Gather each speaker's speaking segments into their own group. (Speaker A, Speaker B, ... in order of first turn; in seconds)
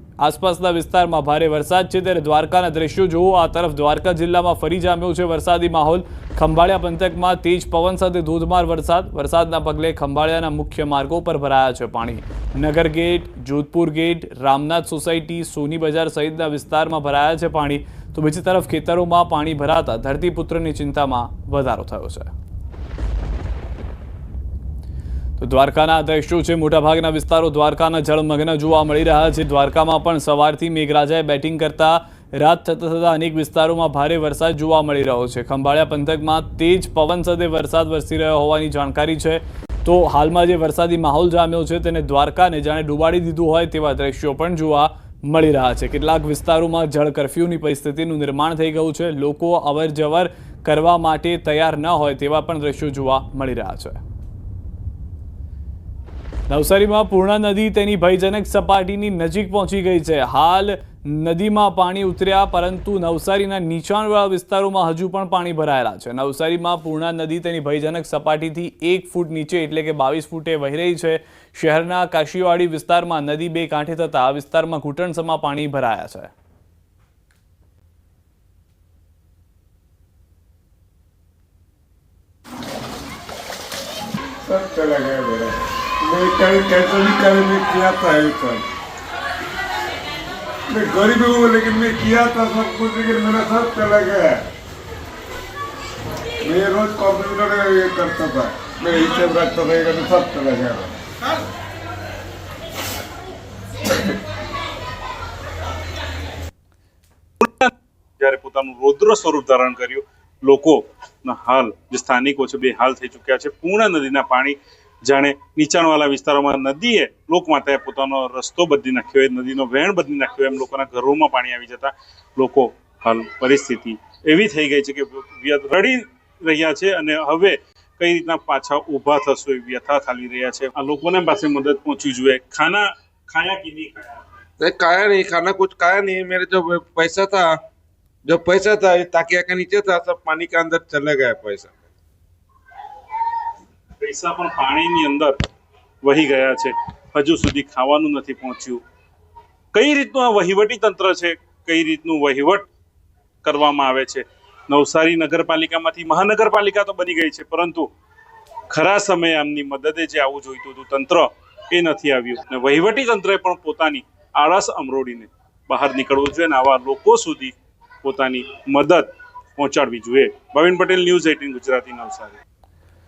Speaker A: 0.2-22.3, 25.4-54.0, 56.5-76.3
Speaker B: 84.4-88.7, 90.7-94.5, 96.4-101.0, 135.3-136.3, 138.7-139.9, 141.0-141.3
Speaker C: 107.4-134.3, 144.0-145.4, 146.0-148.8, 149.7-152.7, 153.4-157.9, 158.7-172.4
Speaker D: 134.6-137.5, 138.3-141.7